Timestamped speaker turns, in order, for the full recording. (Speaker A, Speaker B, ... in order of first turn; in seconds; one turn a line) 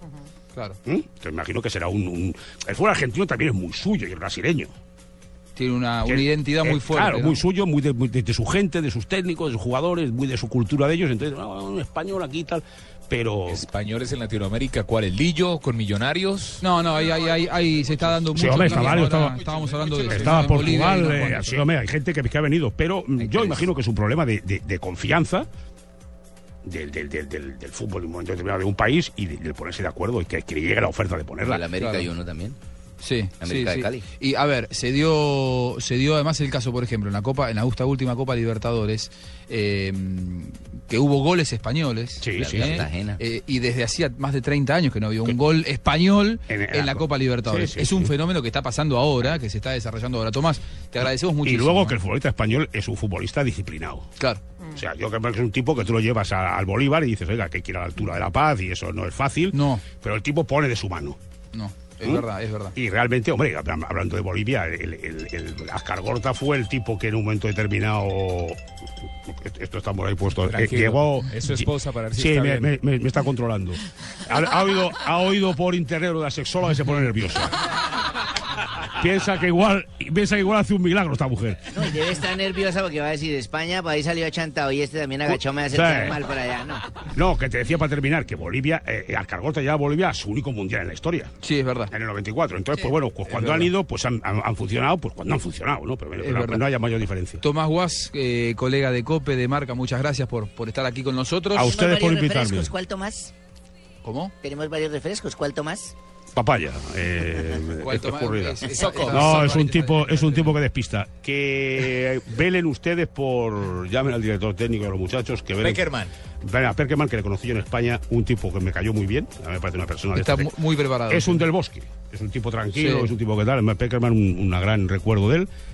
Speaker A: 0.9-4.7
Speaker B: 5.6-7.4
Speaker A: 6.1-13.7
Speaker C: 13.5-16.6
Speaker B: 16.6-21.6
Speaker A: 18.4-19.4
Speaker A: 20.0-25.5
Speaker A: 26.6-31.6
Speaker D: 31.4-32.6
Speaker B: 31.8-32.1
Speaker B: 33.0-52.0
Speaker D: 33.4-34.0
Speaker A: 42.2-42.8
Speaker D: 42.3-43.2
Speaker A: 46.5-48.1
Speaker A: 51.4-54.1
Speaker A: 54.7-61.2
Speaker B: 59.5-59.8
Speaker B: 61.5-62.7
Speaker A: 62.8-68.6
Speaker A: 69.3-77.5
Speaker C: 70.4-72.7
Speaker A: 79.0-81.7
Speaker E: 81.7-86.8
Speaker A: 85.3-86.2
Speaker A: 87.2-91.3
Speaker B: 91.4-91.9
Speaker A: 91.9-97.4
Speaker B: 93.3-93.7
Speaker B: 96.2-96.6
Speaker B: 97.4-101.7
Speaker A: 101.5-102.7
Speaker E: 101.6-103.3
Speaker B: 104.0-104.3
Speaker E: 104.4-105.9
Speaker A: 106.3-115.9
Speaker B: 107.8-110.5
Speaker C: 108.7-109.6
Speaker C: 115.6-116.1
Speaker A: 116.4-120.5
Speaker B: 120.2-121.5
Speaker A: 121.1-125.5
Speaker B: 122.8-123.1